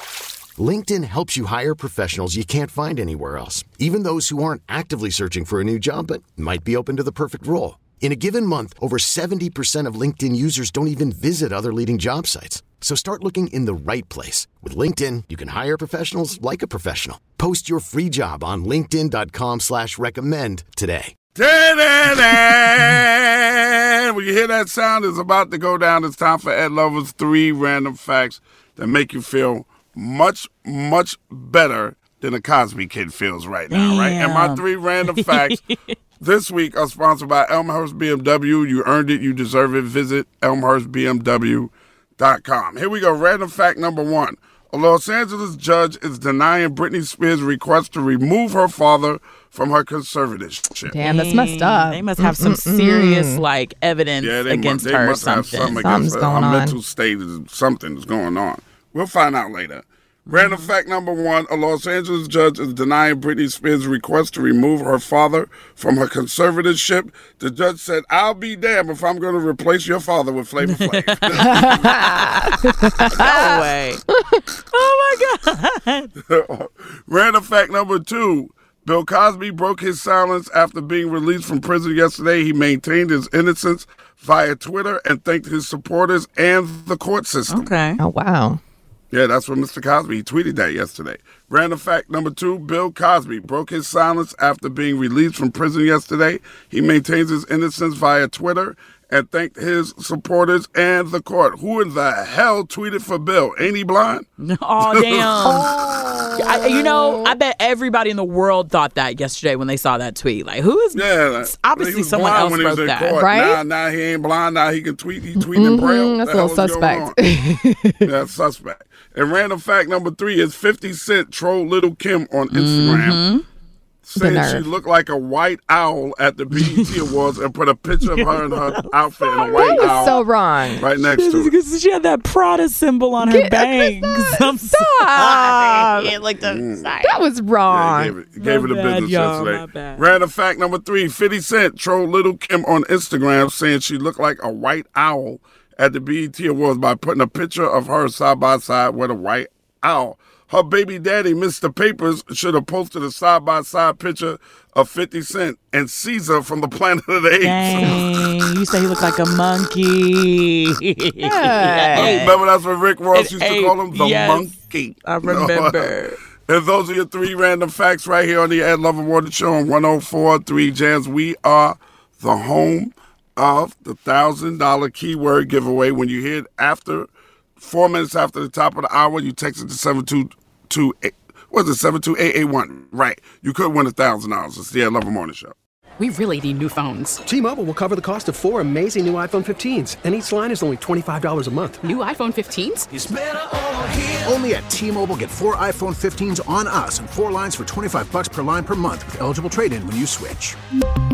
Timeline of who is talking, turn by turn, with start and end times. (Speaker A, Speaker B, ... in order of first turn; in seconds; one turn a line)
Speaker A: 0.6-21.1
Speaker B: 21.4-35.6
Speaker C: 33.7-35.6
Speaker B: 36.2-51.0
Speaker D: 50.9-53.4
Speaker C: 51.0-55.9
Speaker B: 54.2-72.1
Speaker D: 55.8-56.8
Speaker C: 60.3-60.7
Speaker C: 70.6-74.1
Speaker B: 73.1-73.6
Speaker C: 74.7-76.1
Speaker B: 76.3-87.9
Speaker C: 87.5-88.0
Speaker D: 88.0-88.6
Speaker B: 89.1-104.2
Speaker C: 104.4-105.7
Speaker B: 104.8-105.7
Speaker D: 106.0-107.3
Speaker C: 106.3-113.2
Speaker B: 110.9-123.2
Speaker D: 113.2-113.6
Speaker D: 115.3-118.1
Speaker C: 122.5-123.4
Speaker B: 124.0-131.5
Speaker D: 124.2-124.7
Speaker C: 126.6-126.9
Speaker C: 128.1-130.0
Speaker D: 129.4-130.9
Speaker C: 131.1-137.2
Speaker D: 133.2-136.1
Speaker B: 136.4-137.0
Speaker D: 137.0-138.1
Speaker B: 137.7-158.1
Speaker C: 138.3-140.0
Speaker C: 157.4-162.4
Speaker D: 161.2-162.2
Speaker B: 161.9-165.9
Speaker C: 163.1-166.2
Speaker B: 166.5-185.5
Speaker E: 186.0-187.2
Speaker F: 187.2-191.9
Speaker E: 191.8-192.9
Speaker G: 192.9-200.6